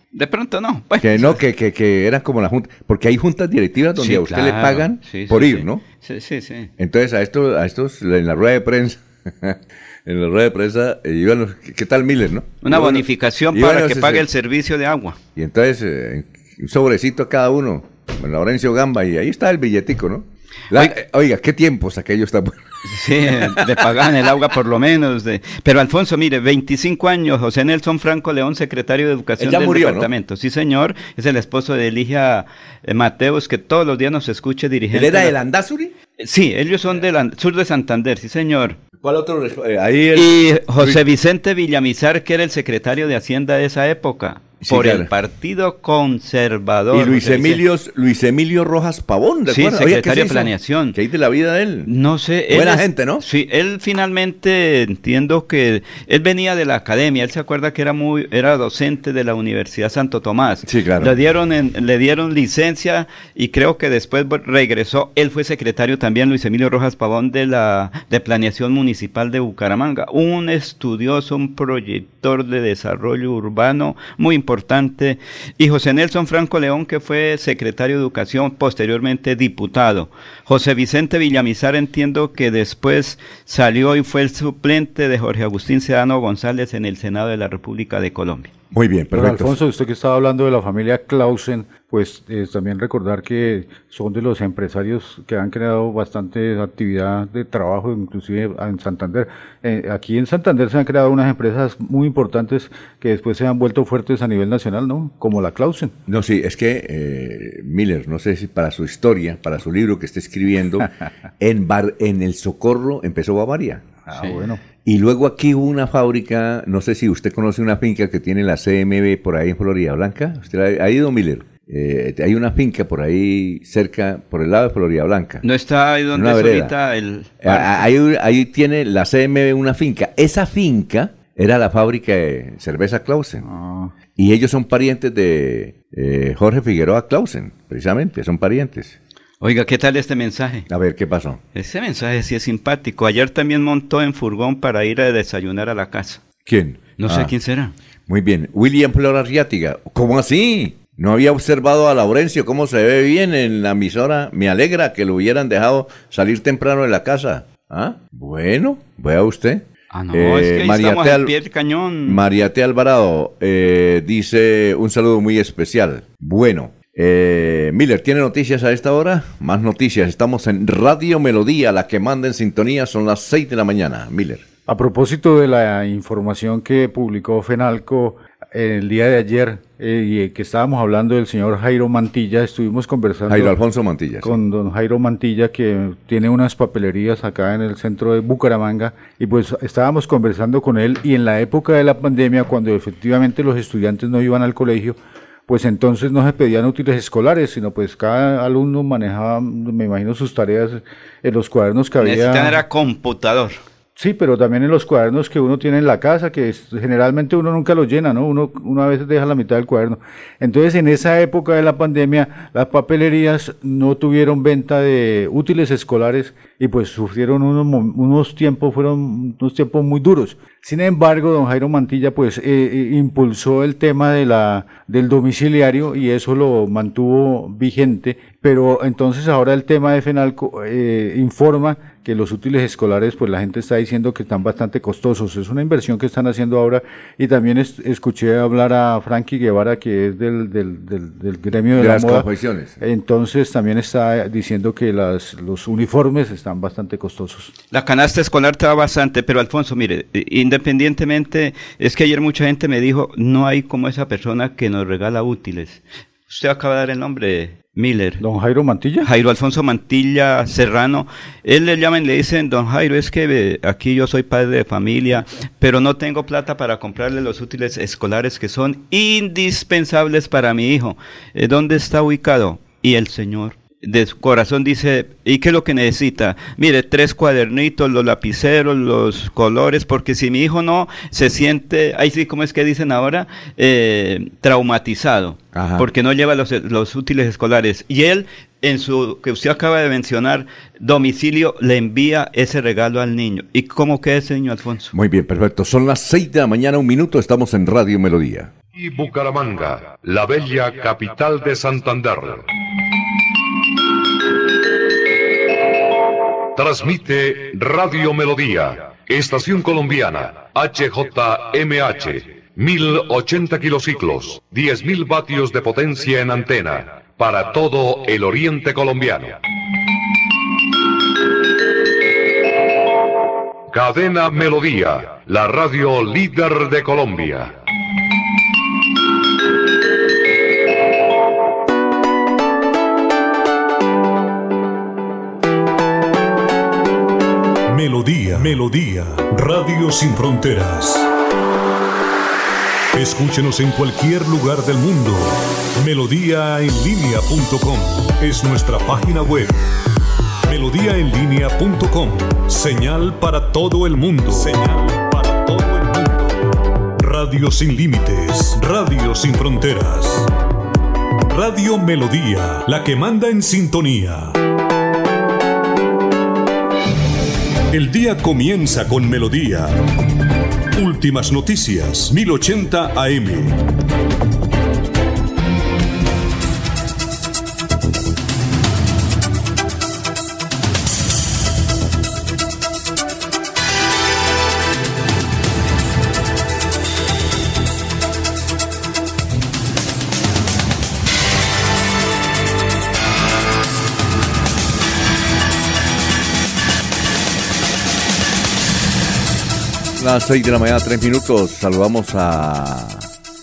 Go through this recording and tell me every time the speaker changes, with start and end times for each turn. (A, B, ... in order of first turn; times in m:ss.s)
0:00.1-0:01.4 A
0:01.0-0:05.8 B
0:04.0-0:06.7 A
0:06.8-0:14.3 B
0:12.6-0:15.2 A
0:15.4-0:22.6 B
0:22.8-0:35.3 A
0:23.3-0:23.8 B
0:29.4-0:30.1 B
0:34.9-0:35.9 B
0:36.2-0:38.8 A
0:39.0-0:41.0 B
0:40.1-0:47.6 A
0:44.6-0:45.1 B
0:46.9-0:51.9 B
0:49.5-0:51.0 A
0:51.9-1:28.5 A
0:52.5-0:53.2 B
1:00.6-1:01.2 B
1:28.7-1:29.6 B
1:29.1-1:46.0 C
1:46.1-1:54.0 B
1:54.1-1:54.6 C
1:54.1-1:54.4 A
1:54.8-2:05.4 B
2:05.4-2:07.9 A
2:06.1-2:06.7 B
2:07.4-2:13.4 B
2:13.4-2:13.9 C
2:14.2-2:19.0 B
2:19.4-2:20.7 A
2:20.7-2:21.4 B
2:21.6-2:26.2 A
2:26.4-2:27.3 B
2:27.0-2:27.7 A
2:28.1-2:41.3 B
2:39.9-2:42.2 A
2:42.1-2:54.4 B
2:54.7-3:03.6 C
3:03.3-3:04.4 B
3:04.2-3:22.6 C
3:22.0-3:23.6 A
3:24.0-4:02.3 C
4:01.8-4:02.8 B
4:02.8-4:07.5 C
4:07.7-4:18.2 A
4:18.2-4:19.1 C
4:19.0-4:54.9 A
4:45.5-4:45.9 B
4:54.9-4:58.5 B
4:58.7-5:02.5 D
5:06.6-5:19.4 D
5:23.7-5:27.6 D
5:37.7-5:41.1 E
5:42.9-5:49.6 E
5:50.4-5:56.3 E
5:57.0-6:00.3 E
6:01.3-6:04.4 E
6:07.7-6:09.8 E
6:10.7-6:13.6 E
6:40.0-6:43.1 B